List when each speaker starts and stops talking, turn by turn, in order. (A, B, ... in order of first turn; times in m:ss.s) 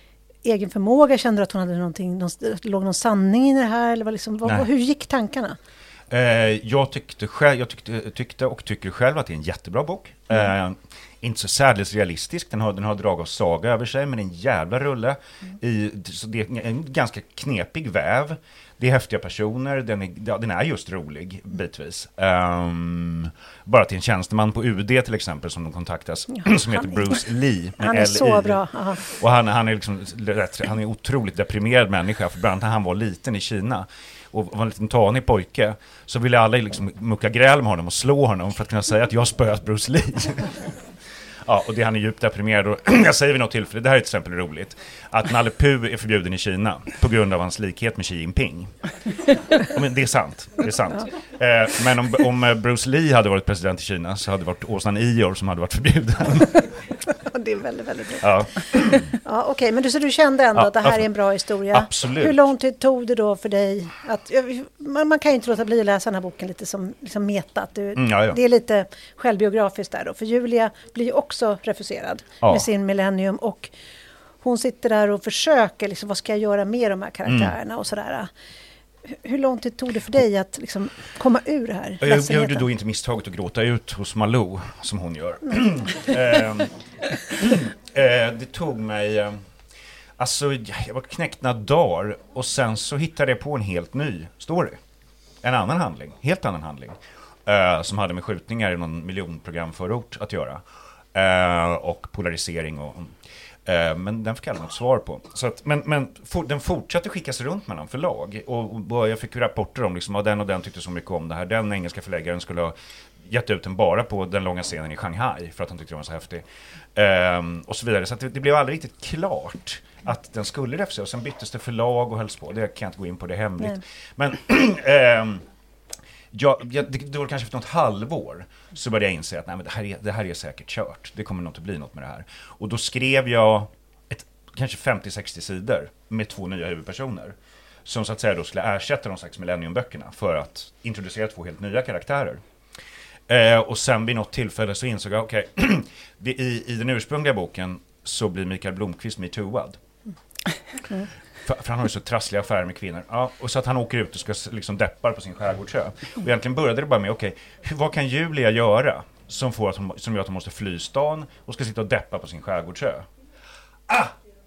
0:00.4-0:05.6 A
0:06.1-0:40.7 B
0:26.4-0:27.2 A
0:27.8-0:29.0 A
0:41.4-0:48.7 B
0:49.5-0:56.7 B
0:57.3-0:58.4 A
0:58.2-0:59.1 B
0:59.1-1:13.7 A
1:00.5-1:01.1 B
1:01.7-1:02.4 B
1:08.0-1:08.4 B
1:12.4-1:12.7 B
1:14.4-1:18.3 A
1:17.2-1:17.5 B
1:19.1-1:22.6 A
1:22.0-1:29.4 B
1:30.2-1:34.8 B
1:35.4-2:05.4 B
2:06.3-2:22.4 B
2:23.3-2:29.8 B
2:31.4-2:43.1 B
2:43.9-2:44.1 B